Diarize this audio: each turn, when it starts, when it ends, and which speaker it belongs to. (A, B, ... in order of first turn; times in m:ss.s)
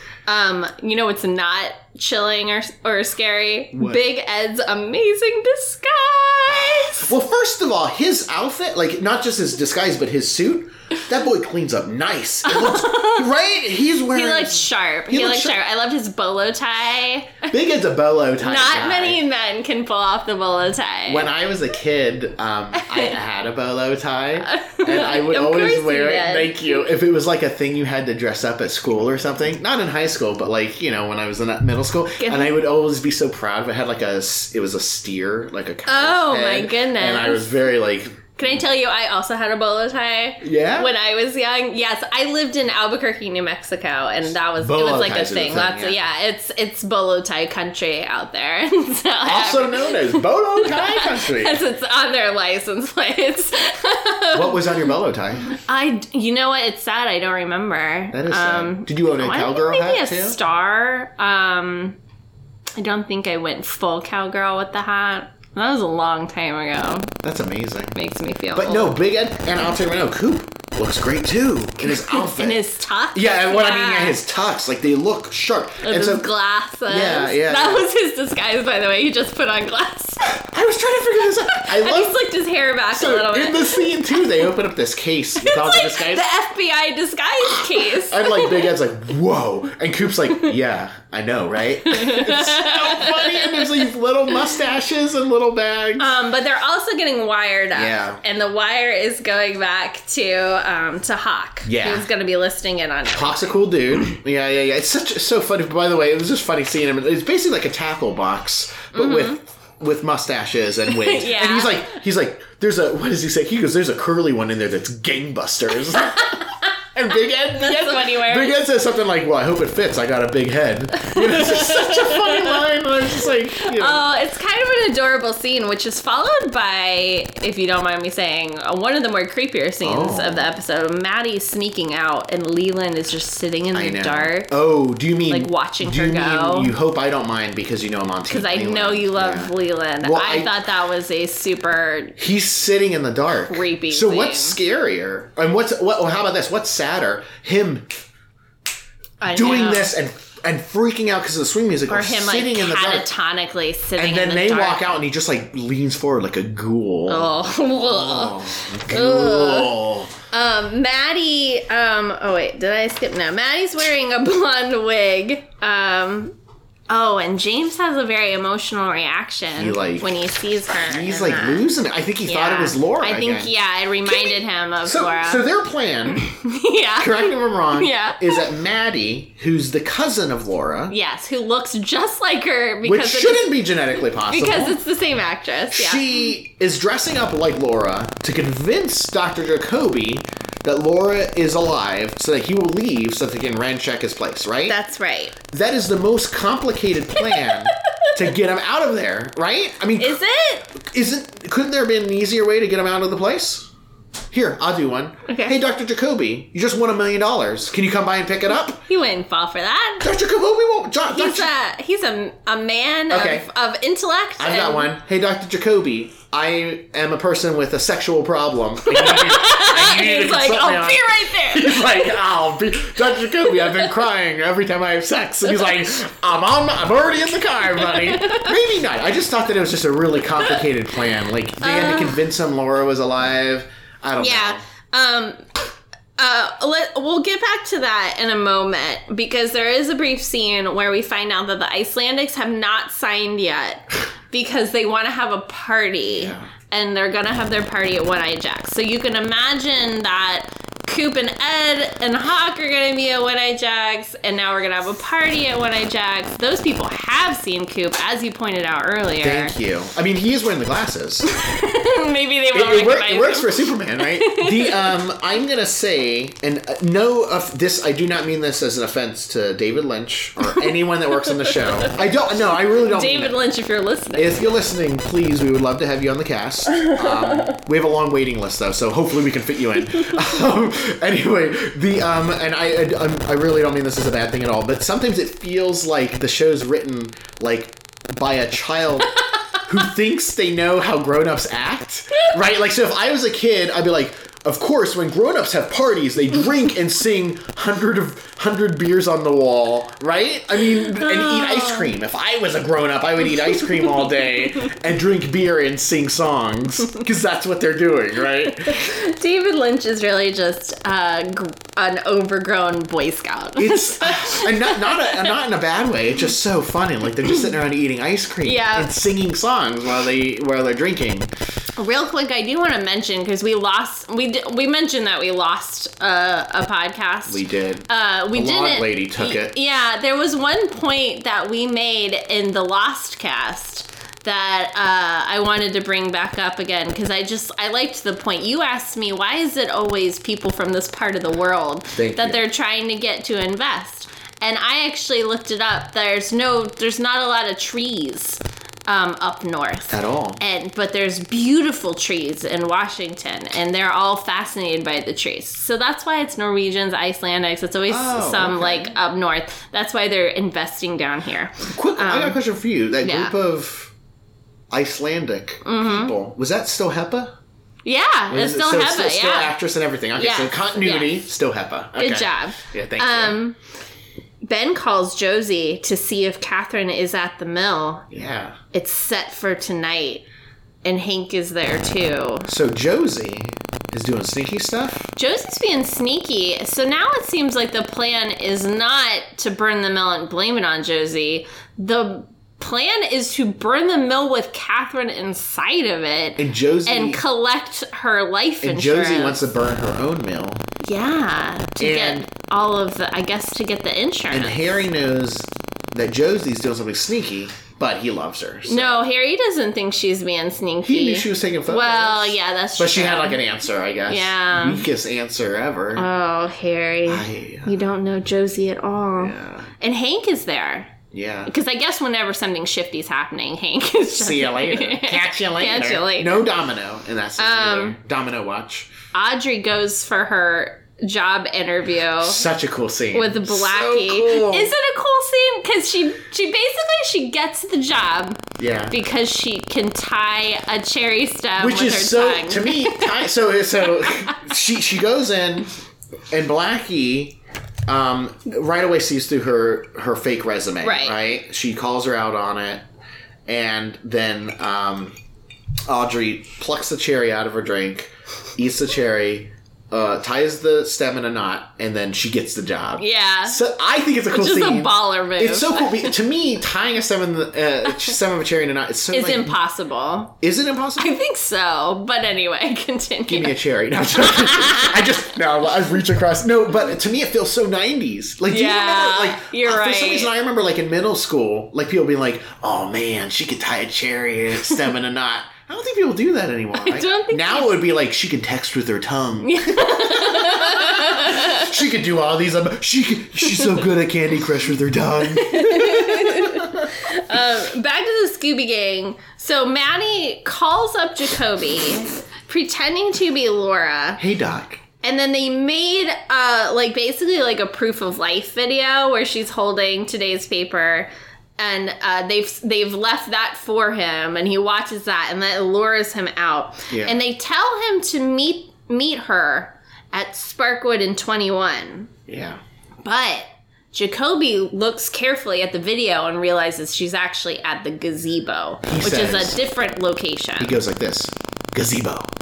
0:00.3-0:07.1 A
0:03.8-0:04.0 B
0:06.5-0:15.6 B
0:12.5-0:13.3 A
0:14.1-0:17.5 A
0:17.5-0:19.2 B
0:18.4-0:21.3 A
0:21.1-0:38.6 B
0:22.8-0:23.2 A
0:24.4-0:26.8 A
0:32.2-0:32.6 A
0:35.9-0:37.5 A
0:38.4-0:54.7 A
0:40.4-0:40.9 B
0:44.2-0:46.0 B
0:49.2-0:51.6 B
0:54.3-0:55.6 B
0:55.5-1:02.0 A
0:58.1-1:00.4 B
1:02.8-1:07.1 A
1:07.2-1:08.0 B
1:07.9-1:08.9 A
1:08.6-1:12.6 B
1:11.8-1:14.2 A
1:13.1-1:16.3 B
1:15.8-1:20.4 A
1:16.9-1:17.9 B
1:20.3-1:22.2 B
1:21.5-1:24.3 A
1:22.9-1:26.3 B
1:25.4-1:28.7 A
1:27.4-1:36.2 B
1:31.9-1:33.9 A
1:36.0-1:43.6 A
1:37.7-1:38.2 B
1:41.6-1:42.1 B
1:43.1-2:04.0 B
1:48.9-1:49.4 A
1:50.9-1:52.0 A
1:56.0-1:56.5 A
1:57.6-1:58.6 A
2:01.0-2:02.6 A
2:03.6-2:14.5 A
2:09.8-2:10.5 B
2:13.7-2:20.5 B
2:15.3-2:16.7 A
2:18.3-2:22.2 A
2:22.2-2:27.9 B
2:23.5-2:24.6 A
2:29.2-2:29.9 A
2:29.3-2:33.1 B
2:31.9-2:34.9 A
2:34.0-2:40.1 B
2:37.1-2:39.7 A
2:40.3-2:46.4 A
2:46.9-2:51.7 A
2:49.6-2:50.1 B
2:50.7-2:53.5 B
2:52.3-2:55.4 A
2:54.0-2:56.3 B
2:56.3-2:58.4 A
2:57.0-3:01.0 B
3:00.9-3:06.1 A
3:02.8-3:04.8 B
3:05.7-3:14.8 B
3:14.7-3:15.3 A
3:15.5-3:20.2 B
3:20.0-3:20.7 A
3:20.7-3:23.7 B
3:24.3-3:28.8 B
3:25.3-3:25.6 A
3:28.8-3:30.1 A
3:30.0-3:31.5 B
3:31.1-3:34.9 A
3:33.1-3:33.5 B
3:34.4-3:54.6 B
3:38.9-3:42.1 A
3:47.9-3:48.5 A
3:51.6-3:52.2 A
3:54.2-3:55.4 A
3:56.2-4:19.6 A
4:06.1-4:06.5 B
4:19.2-4:21.3 B
4:21.3-4:25.0 A
4:22.5-4:33.4 B
4:31.3-4:32.0 A
4:32.9-4:34.4 A
4:34.2-5:08.9 B
5:01.0-5:01.9 A
5:08.4-5:15.3 A
5:13.6-5:21.3 B
5:18.4-5:18.9 A
5:21.8-6:02.4 A
5:27.3-5:29.6 B
5:41.9-5:42.4 B
5:49.9-5:50.4 B
5:57.9-5:59.0 B
6:01.7-6:03.9 B
6:03.0-6:03.3 A
6:04.7-6:07.4 B
6:05.6-6:06.1 A
6:07.8-6:09.5 A
6:08.3-6:13.4 B
6:10.2-6:11.2 A
6:12.0-6:13.6 A
6:14.4-6:18.1 A
6:18.1-6:18.6 B
6:18.7-6:20.2 A
6:20.8-6:22.5 A
6:22.5-6:25.1 B
6:25.2-6:39.4 A
6:36.4-6:37.2 B
6:38.6-6:40.6 B
6:40.8-6:44.9 A
6:41.8-6:42.3 B
6:44.3-6:49.0 B
6:48.6-6:53.4 A
6:50.8-6:56.1 B
6:54.1-6:54.9 A
6:55.9-7:00.9 A
6:57.1-6:57.7 B
6:59.2-6:59.7 B
7:01.1-7:01.5 B
7:01.5-7:06.5 A
7:04.1-7:08.9 B
7:07.4-7:08.0 A
7:09.1-7:12.4 A
7:12.2-7:14.7 B
7:13.1-7:23.1 A
7:18.6-7:19.0 B
7:21.6-7:25.7 B
7:24.0-7:24.4 A
7:26.3-7:27.4 B
7:27.9-7:32.8 B
7:30.8-7:31.2 A
7:33.5-7:35.2 B
7:35.9-7:49.6 B
7:43.0-7:43.6 A
7:44.3-7:46.2 A
7:47.9-7:48.1 A
7:49.1-7:50.3 A
7:50.4-7:51.1 B
7:51.0-7:53.5 A
7:53.3-8:16.9 B
7:54.2-7:55.0 A
7:58.5-8:00.3 A
8:06.8-8:07.8 A
8:09.4-8:11.7 A
8:15.4-8:24.2 A
8:24.2-8:24.8 B
8:25.0-8:42.1 A
8:36.9-8:37.2 B
8:42.3-8:42.6 B
8:43.0-8:50.8 A
8:48.8-8:49.6 B
8:50.6-8:52.3 B